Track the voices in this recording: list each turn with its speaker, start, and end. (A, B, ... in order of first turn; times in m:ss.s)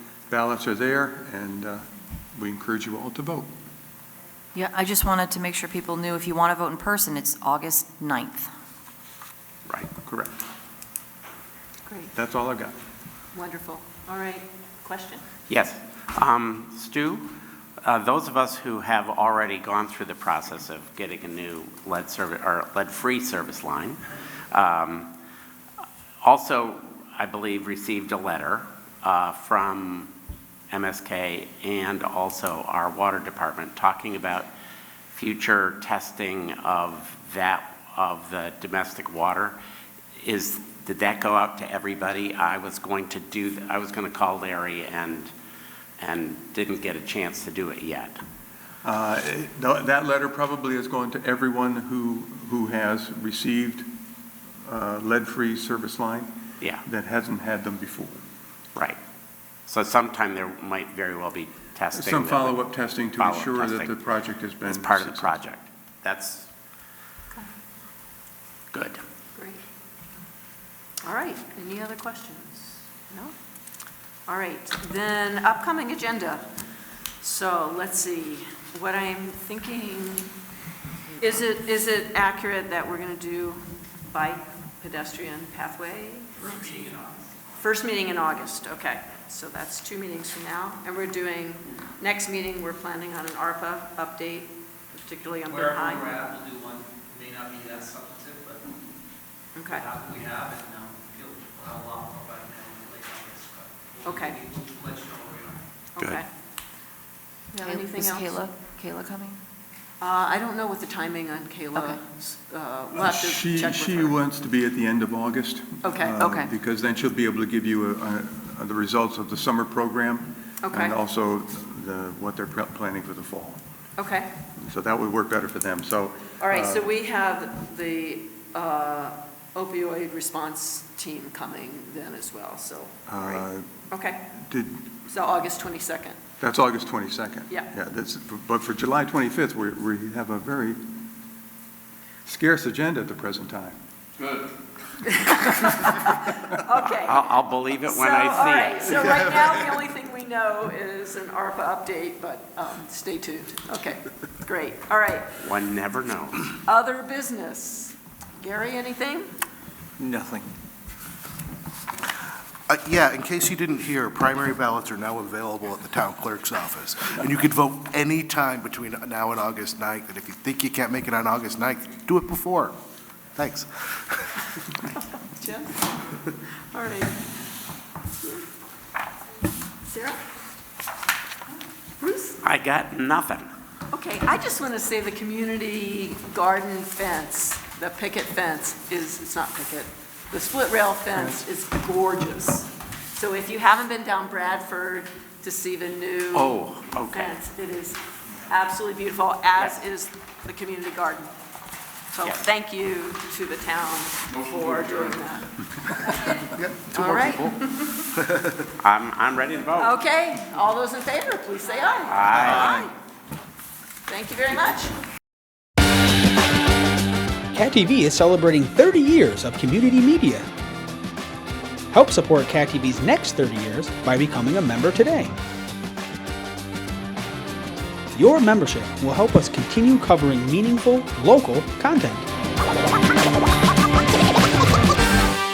0:00.3-0:03.5 A
0:04.5-0:08.5 B
0:10.0-0:10.4 A
0:12.1-0:12.7 A
0:13.3-0:15.2 C
0:15.5-0:17.3 D
0:17.8-0:24.0 D
0:24.5-0:25.1 D
0:26.2-0:30.1 D
0:30.7-0:34.5 D
0:35.1-0:39.6 D
0:40.2-0:45.3 D
0:46.0-0:48.2 D
0:48.8-0:53.9 A
0:54.6-0:56.3 A
0:56.8-0:58.2 A
0:59.7-1:02.6 D
1:01.9-1:05.3 A
1:03.2-1:03.9 D
1:04.6-1:06.5 D
1:08.7-1:09.0 D
1:09.3-1:09.6 C
1:11.0-1:13.3 C
1:14.3-1:16.5 C
1:17.2-1:20.3 C
1:21.2-1:26.9 C
1:26.6-1:27.1 E
1:27.6-1:36.2 C
1:35.5-1:38.6 E
1:39.6-1:39.8 C
1:39.7-1:45.6 E
1:44.0-1:44.4 C
1:46.0-1:46.2 C
1:47.5-1:48.5 C
1:47.6-1:49.4 B
1:50.0-1:54.1 C
1:52.9-2:03.6 A
1:55.8-1:56.2 C
1:56.2-1:56.5 B
2:00.6-2:01.0 C
2:04.0-2:04.3 C
2:04.6-2:06.9 A
2:06.4-2:14.2 C
2:13.1-2:13.7 A
2:14.3-2:14.9 A
2:15.1-2:16.2 C
2:16.4-2:20.8 A
2:22.2-2:23.8 A
2:25.0-2:35.4 C
2:26.9-2:29.4 D
2:35.4-2:36.5 D
2:36.5-2:39.3 C
2:40.0-2:40.5 A
2:42.7-2:52.7 F
2:53.4-2:54.4 F
2:54.9-2:57.2 C
2:59.8-3:00.2 C
3:02.0-3:02.4 C
3:02.4-3:03.5 D
3:03.9-3:16.6 C
3:16.3-3:17.4 D
3:17.1-3:21.3 C
3:22.1-3:25.5 C
3:24.5-3:25.0 E
3:26.0-3:28.1 C
3:26.5-3:28.6 F
3:28.8-3:30.0 D
3:29.8-3:32.9 C
3:32.1-3:32.8 D
3:34.1-3:34.9 C
3:37.5-3:40.5 G
3:41.9-3:45.3 G
3:48.1-3:52.3 G